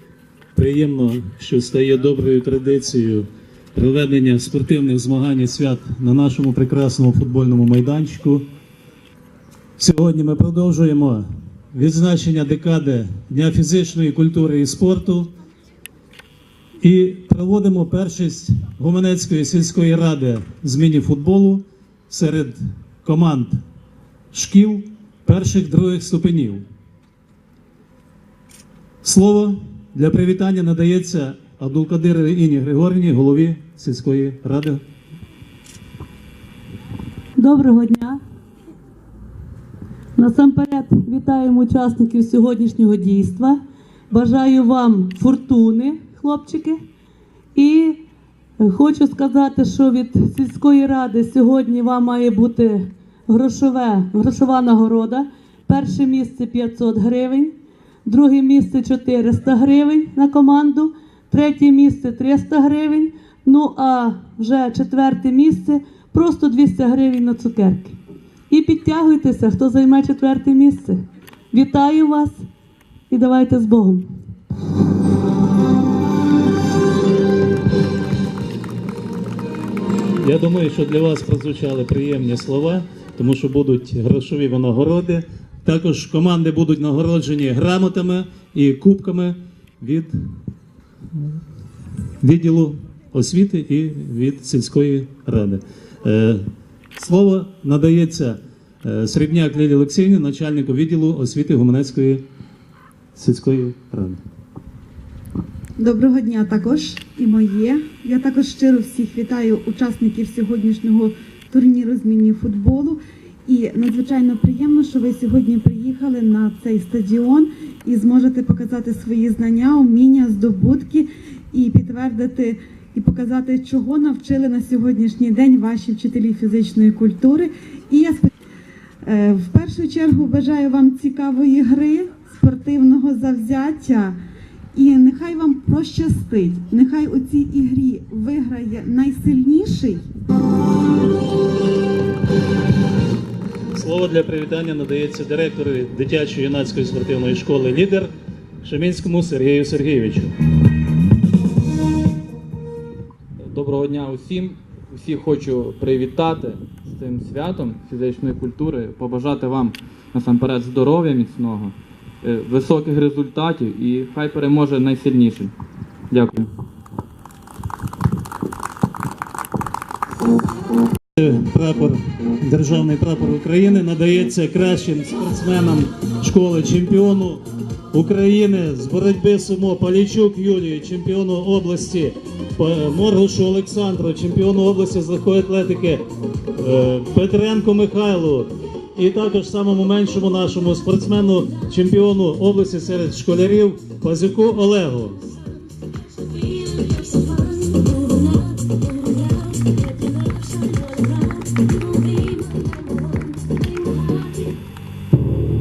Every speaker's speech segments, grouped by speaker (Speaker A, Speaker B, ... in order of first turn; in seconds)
Speaker A: 0.5-8.4, 9.8-15.3, 16.8-23.6, 24.3-26.6, 29.0-34.8, 80.2-90.1, 92.2-102.2, 103.1-104.2, 143.7-150.3, 171.2-186.0, 186.6-195.3
Speaker B: 37.4-38.2, 40.2-43.6, 44.1-46.8, 47.5-48.0, 48.6-68.0, 68.5-72.5, 73.1-74.1, 196.4-204.4
Speaker C: 105.8-128.3, 129.0-134.2, 134.7-140.0
Speaker D: 153.4-165.5, 166.1-166.5